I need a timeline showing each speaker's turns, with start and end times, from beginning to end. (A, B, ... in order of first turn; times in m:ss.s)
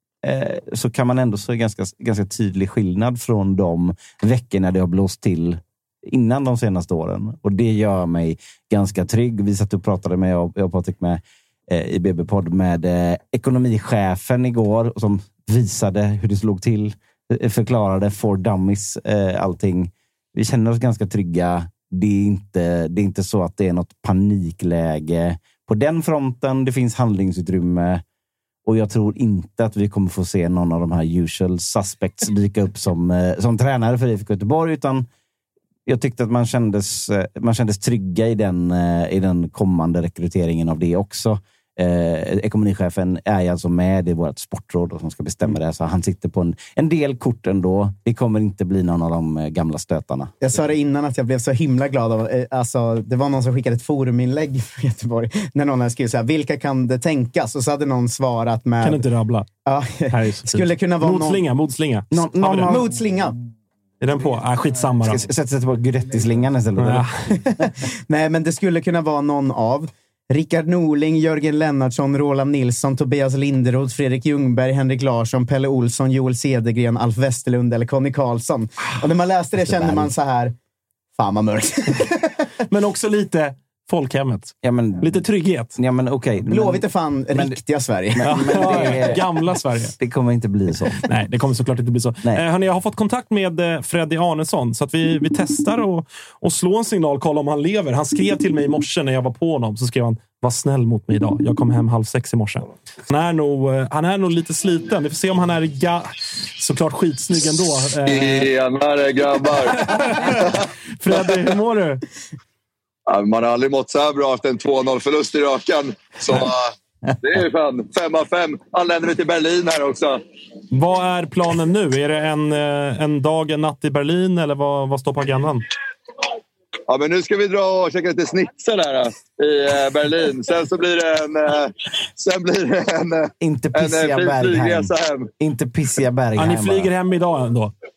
0:00.2-0:28.0 A
0:28.6-0:35.1 A
0:35.9-0:50.3 A
0:50.4-0:59.0 B
0:58.8-0:59.5 C
0:59.6-1:01.4 B
1:00.1-1:02.8 C
1:02.1-1:02.8 A
1:02.6-1:03.3 B
1:04.0-1:05.2 C
1:05.0-1:07.1 A
1:06.8-1:07.3 C
1:07.5-1:20.5 B
1:21.2-1:22.3 B
1:22.7-1:25.7 C
1:24.6-1:25.2 A
1:25.8-1:27.6 A
1:26.5-1:29.0 B
1:28.1-1:29.3 A
1:28.2-1:29.9 C
1:30.0-1:31.0 A
1:31.0-1:46.0 C
1:46.6-1:48.5 C
1:48.0-1:50.6 D
1:49.8-1:52.0 C
1:51.1-1:51.6 D
1:53.1-2:00.2 D
2:00.7-2:05.6 C
2:06.9-2:15.3 D
2:13.4-2:16.9 A
2:16.4-2:17.7 C